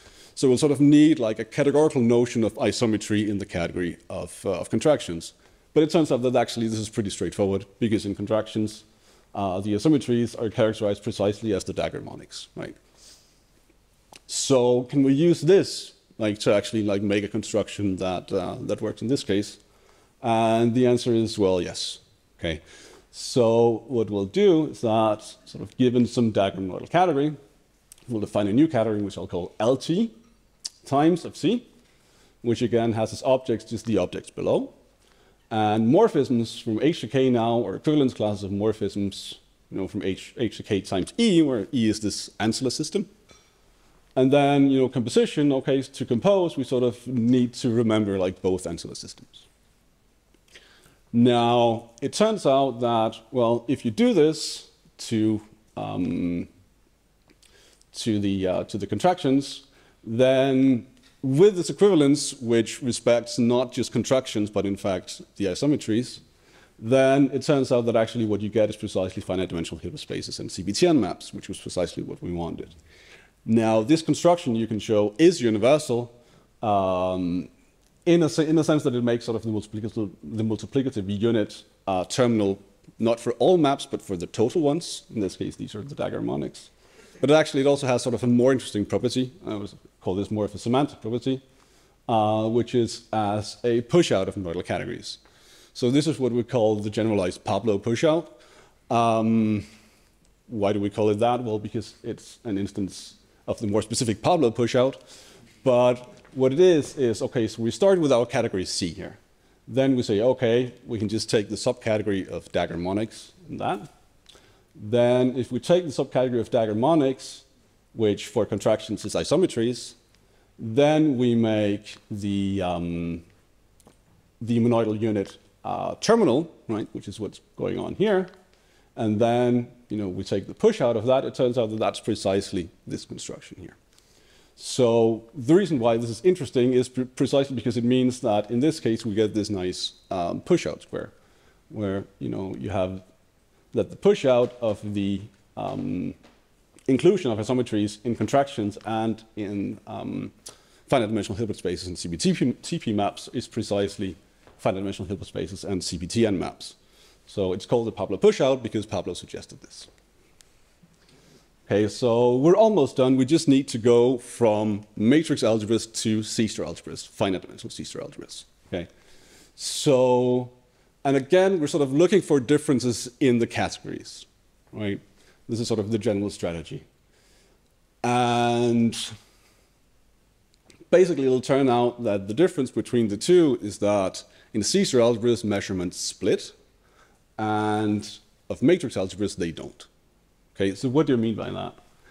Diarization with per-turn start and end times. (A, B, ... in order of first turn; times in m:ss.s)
0:00.4-0:12.8 A
0:14.3-0:19.6 A
0:20.2-0:27.4 A
0:28.1-0:30.1 A
0:30.8-0:31.7 A
0:32.4-0:34.7 A
0:35.5-0:43.1 A
0:44.2-0:49.4 A
0:51.1-0:56.5 A
0:57.9-1:06.2 A
1:06.8-1:12.7 A
1:13.4-1:17.5 A
1:18.1-1:31.4 A
1:32.1-1:35.2 A
1:35.8-1:38.4 A
1:38.9-1:39.7 A
1:40.5-1:45.0 A
1:45.6-1:53.9 A
1:54.8-2:00.0 A
2:00.6-2:03.2 A
2:04.4-2:08.3 A
2:09.0-2:13.8 A
2:14.6-2:21.1 A
2:21.7-2:23.0 A
2:23.7-2:26.2 A
2:26.9-2:30.3 A
2:30.9-2:36.8 A
2:37.3-2:39.9 A
2:41.7-2:48.9 A
2:49.6-2:56.8 A
2:58.0-2:59.1 A
3:00.9-3:06.5 A
3:07.4-3:09.9 A
3:10.6-3:11.8 A